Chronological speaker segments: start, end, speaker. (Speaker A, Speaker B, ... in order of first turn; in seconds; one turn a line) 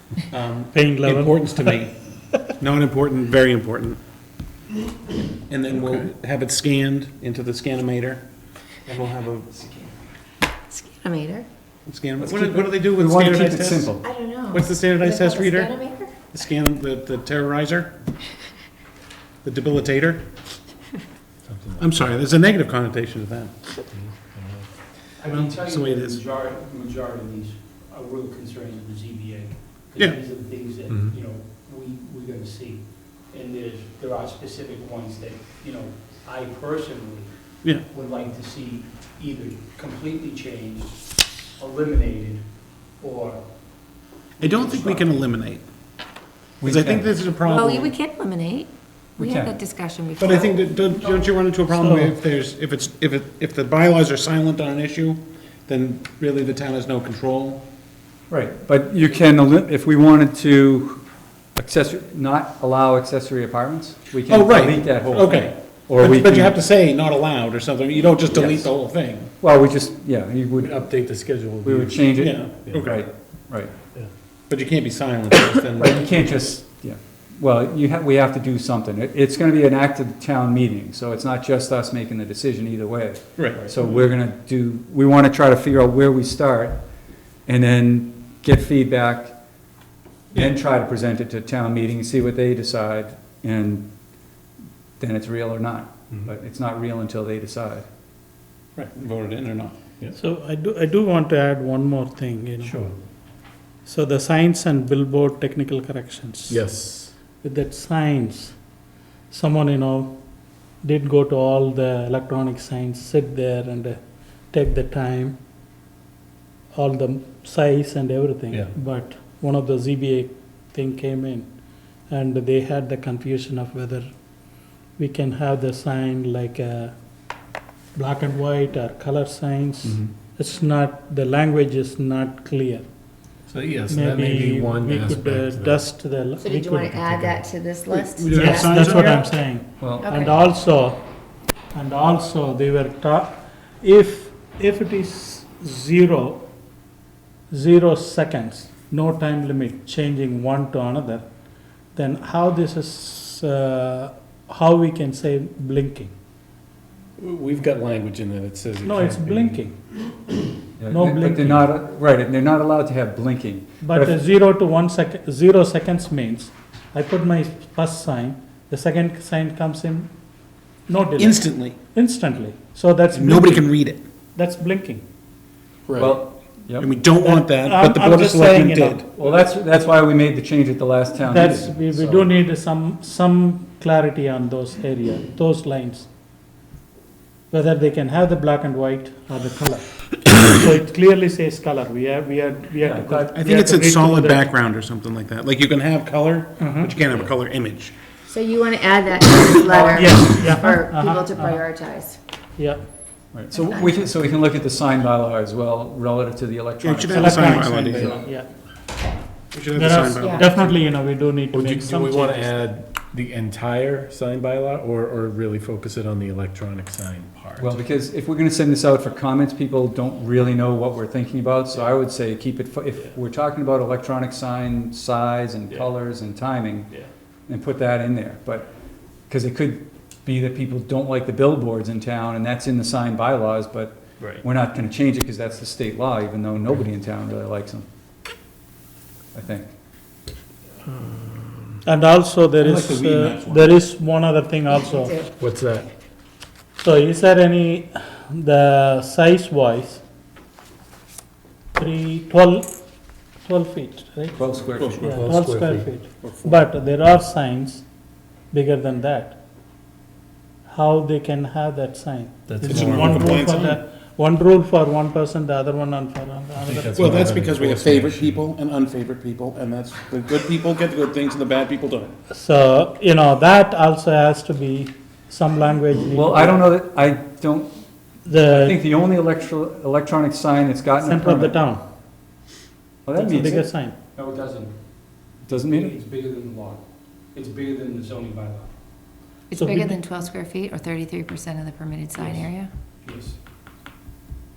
Speaker A: 0.3-1.9
Speaker B: 0.7-1.8
Speaker A: 2.6-4.0
Speaker A: 5.5-8.2
Speaker A: 8.8-9.9
Speaker C: 10.7-11.5
Speaker A: 11.8-14.0
Speaker D: 12.2-14.0
Speaker C: 14.0-16.1
Speaker A: 14.5-17.9
Speaker A: 19.4-20.3
Speaker E: 21.4-22.1
Speaker A: 21.8-23.8
Speaker E: 23.9-24.7
Speaker F: 25.2-37.3
Speaker A: 25.3-26.2
Speaker E: 30.9-31.2
Speaker F: 37.9-40.9
Speaker F: 41.6-42.4
Speaker F: 43.1-43.4
Speaker A: 44.4-45.6
Speaker D: 46.6-47.1
Speaker A: 46.6-47.9
Speaker C: 47.4-51.2
Speaker D: 49.2-49.5
Speaker A: 50.2-57.6
Speaker B: 51.7-52.1
Speaker D: 58.3-61.0
Speaker D: 61.5-66.5
Speaker A: 64.3-69.3
Speaker E: 68.3-68.7
Speaker D: 69.4-71.0
Speaker E: 70.5-73.0
Speaker D: 71.6-73.7
Speaker A: 72.2-73.0
Speaker A: 74.5-76.3
Speaker D: 75.7-86.8
Speaker A: 83.4-83.7
Speaker D: 87.5-89.3
Speaker D: 90.3-93.9
Speaker D: 95.0-97.8
Speaker A: 98.9-99.8
Speaker B: 100.1-102.8
Speaker E: 102.6-102.9
Speaker B: 103.8-106.7
Speaker E: 106.5-107.2
Speaker B: 107.2-108.6
Speaker B: 109.3-110.2
Speaker B: 110.8-115.4
Speaker B: 116.7-127.1
Speaker B: 127.9-132.9
Speaker E: 129.8-130.1
Speaker E: 133.4-135.9
Speaker B: 133.9-137.1
Speaker C: 136.4-139.2
Speaker E: 137.0-137.4
Speaker A: 137.9-139.2
Speaker B: 138.3-141.0
Speaker D: 139.8-140.2
Speaker C: 140.0-140.3
Speaker B: 141.7-146.5
Speaker B: 147.5-151.3
Speaker B: 151.9-156.1
Speaker E: 157.2-159.6
Speaker B: 158.8-159.8
Speaker D: 160.8-164.1
Speaker B: 160.9-161.7
Speaker B: 163.8-170.1
Speaker B: 170.9-173.8
Speaker A: 171.2-171.8
Speaker A: 173.1-174.0
Speaker B: 174.3-175.0
Speaker E: 175.9-176.2
Speaker D: 176.0-176.9
Speaker A: 176.8-179.1
Speaker B: 177.2-179.0
Speaker D: 179.1-182.3
Speaker B: 181.2-186.1
Speaker B: 187.5-194.5
Speaker D: 192.8-193.5
Speaker A: 193.3-197.9
Speaker B: 196.6-196.9
Speaker C: 198.3-202.2
Speaker B: 199.6-201.6
Speaker B: 202.6-202.8
Speaker D: 203.3-208.0
Speaker C: 203.5-204.0
Speaker A: 206.8-208.2
Speaker B: 207.1-208.5
Speaker E: 207.8-208.2
Speaker A: 209.5-210.8
Speaker B: 209.7-212.7
Speaker C: 210.2-210.4
Speaker E: 211.5-217.8
Speaker D: 217.6-226.9
Speaker D: 227.5-228.7
Speaker D: 229.3-237.8
Speaker E: 234.2-234.4
Speaker D: 239.3-239.7
Speaker E: 240.8-241.8
Speaker B: 241.8-245.1
Speaker A: 242.6-243.8
Speaker C: 244.7-245.3
Speaker E: 245.4-245.9
Speaker B: 246.8-250.0
Speaker B: 251.7-252.7
Speaker B: 253.4-254.4
Speaker D: 254.3-255.3
Speaker E: 255.0-256.0
Speaker B: 255.0-257.9
Speaker A: 256.2-256.6
Speaker B: 258.5-259.4
Speaker B: 260.7-267.3
Speaker E: 262.5-263.5
Speaker A: 262.7-263.8
Speaker E: 266.6-268.4
Speaker A: 266.9-272.1
Speaker B: 272.3-276.7
Speaker D: 276.1-277.7
Speaker B: 278.2-278.8
Speaker D: 278.3-281.6
Speaker B: 281.0-281.8
Speaker D: 283.0-283.7
Speaker B: 283.1-283.9
Speaker D: 285.4-285.9
Speaker C: 289.5-292.7
Speaker B: 289.5-289.9